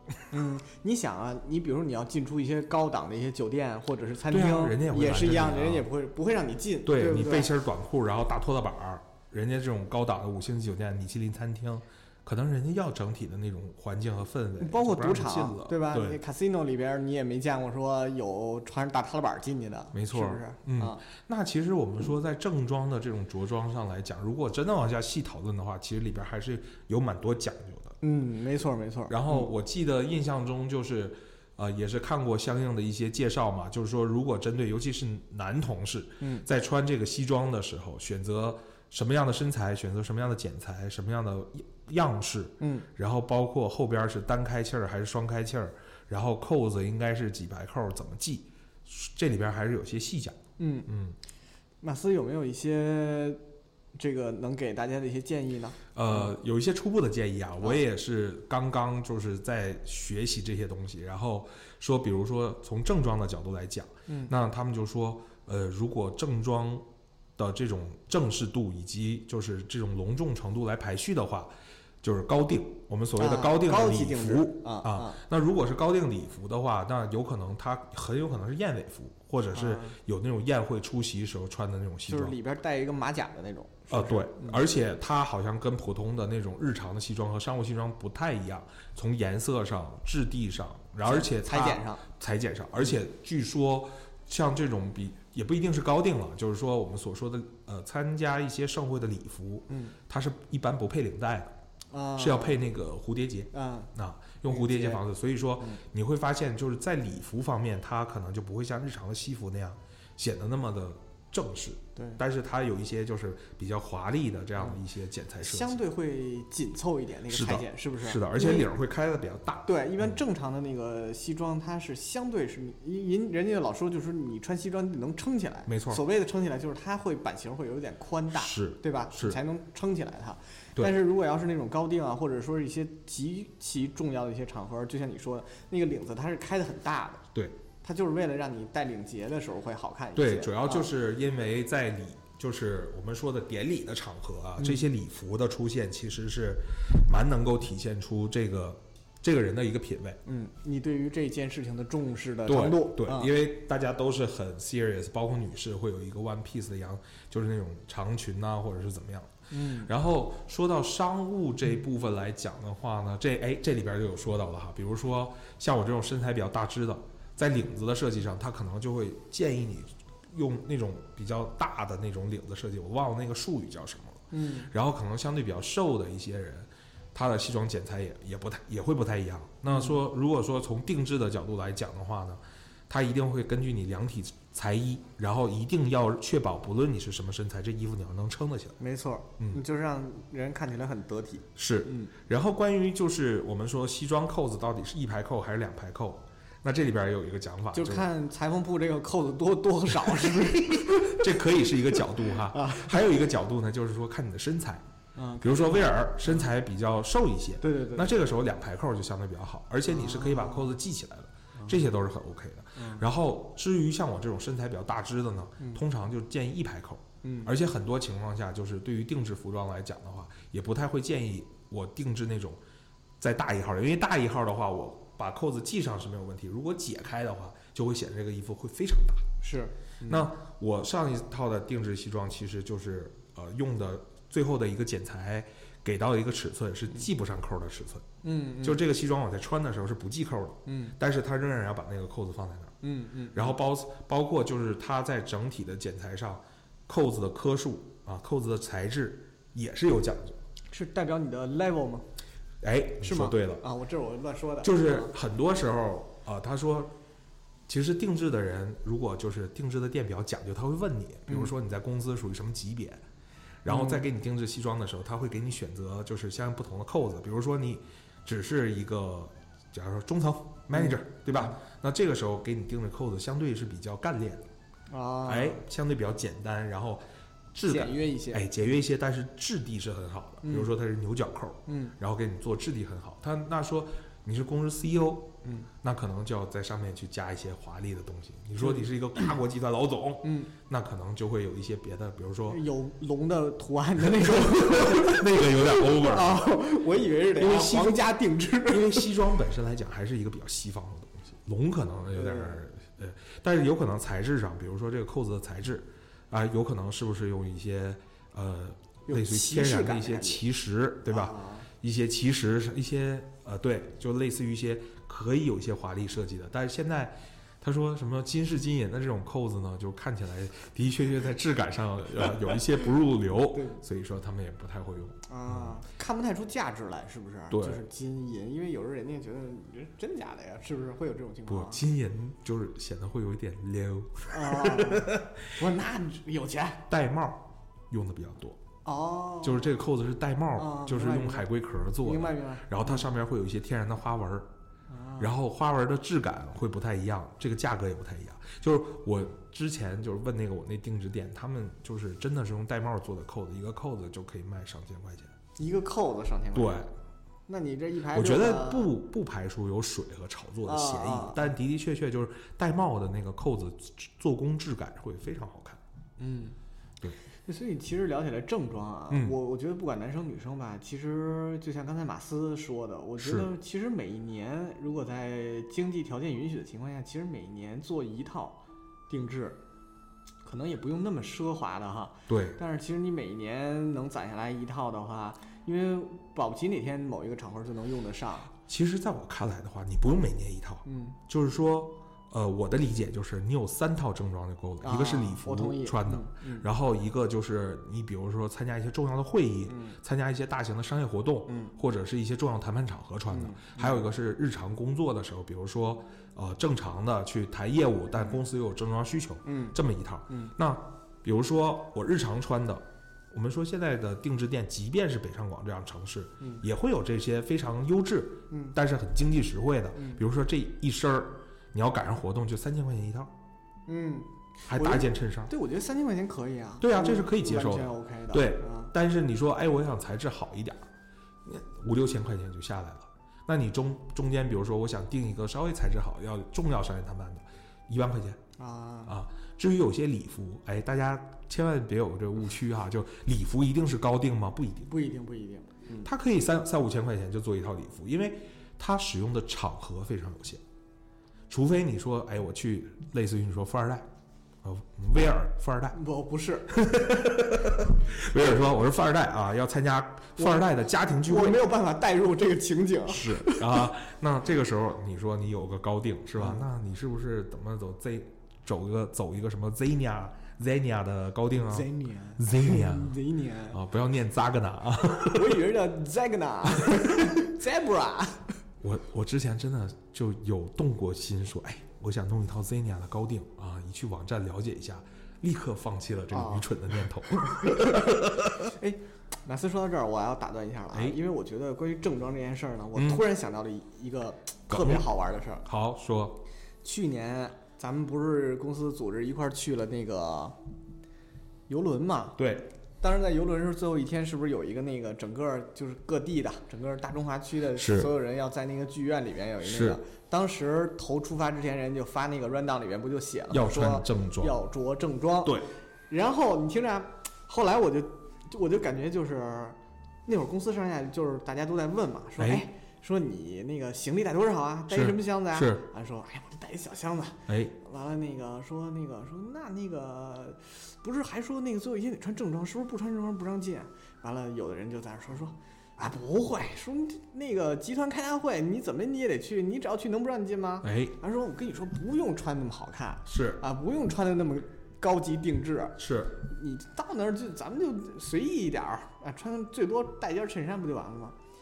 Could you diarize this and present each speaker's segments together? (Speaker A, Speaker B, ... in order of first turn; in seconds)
Speaker A: 0.3-7.5, 14.6-21.0, 28.0-29.5, 42.6-42.9, 50.6-50.9, 51.8-53.4, 53.9-56.3, 73.2-75.2, 79.5-80.0, 82.1-84.6, 91.0-92.0, 99.7-100.0, 101.9-102.6, 103.5-103.9, 104.5-105.0, 112.0-112.2, 115.4-118.7, 119.7-137.2, 137.8-140.9, 144.6-144.9, 150.2-153.3, 159.5-159.9, 174.3-174.7, 179.7-180.0, 188.8-192.1, 197.7-201.3, 202.5-203.1, 205.2-206.4, 207.6-208.3, 209.8-210.8, 211.6-211.9, 212.8-213.0, 217.2-217.5, 229.4-230.3, 238.2-238.8, 240.7-240.9, 242.8-243.5, 250.7-252.1, 253.0-255.1, 263.7-264.0, 270.7-271.5, 274.9-275.6, 277.6-278.4, 280.4-280.7, 281.7-281.9, 285.4-285.7, 288.6-288.8, 290.2-290.5, 292.5-299.1, 302.1-302.6, 309.1-310.4, 311.1-311.7, 323.5-323.8, 325.3-331.8, 334.3-336.8, 338.8-339.8, 340.6-341.5, 342.0-343.1, 344.9-345.3, 355.6-356.9, 357.5-358.9, 360.6-361.4, 366.2-366.6, 367.4-379.6, 380.4-388.5, 390.8-391.2, 394.8-396.7, 399.7-399.9, 401.5-401.7, 403.3-404.0, 409.4-409.8, 418.5-418.8, 419.9-420.2, 423.9-428.9, 438.6-439.1, 444.9-446.1, 455.9-456.8, 460.4-460.7, 461.2-463.6, 466.4-466.6, 471.6-473.8, 475.2-478.5, 486.3-486.7, 487.4-495.6, 496.8-500.6, 501.7-502.4, 503.0-551.3
Speaker B: 4.3-5.9, 6.8-16.2, 19.9-27.9, 29.1-51.2, 55.9-82.4, 83.9-101.5, 102.2-115.7, 117.3-120.2, 125.7-126.0, 128.3-129.4, 140.2-150.2, 152.5-188.8, 191.6-198.1, 200.0-204.8, 205.4-222.6, 223.2-229.3, 230.1-238.1, 238.6-242.7, 243.3-250.4, 252.6-253.6, 254.6-256.9, 257.7-263.0, 263.6-274.4, 275.2-292.6, 294.0-296.5, 297.4-298.1, 298.6-325.8, 327.5-327.8, 331.5-335.4, 336.9-338.6, 339.4-344.5, 345.2-355.3, 356.5-356.9, 358.1-365.8, 373.2-373.5, 382.3-382.6, 388.6-423.3, 424.7-425.5, 426.8-430.8, 431.4-438.4, 439.1-444.9, 446.0-450.6, 451.5-454.1, 454.6-456.0, 456.7-461.6, 463.1-473.2, 473.7-475.6, 478.8-488.5, 492.9-493.2, 494.7-495.1, 495.6-496.4, 502.4-502.7, 507.7-508.1, 509.6-510.0, 513.5-514.5, 522.4-522.6, 524.9-525.8, 527.5-527.7, 540.8-541.1, 543.3-543.6, 546.0-546.4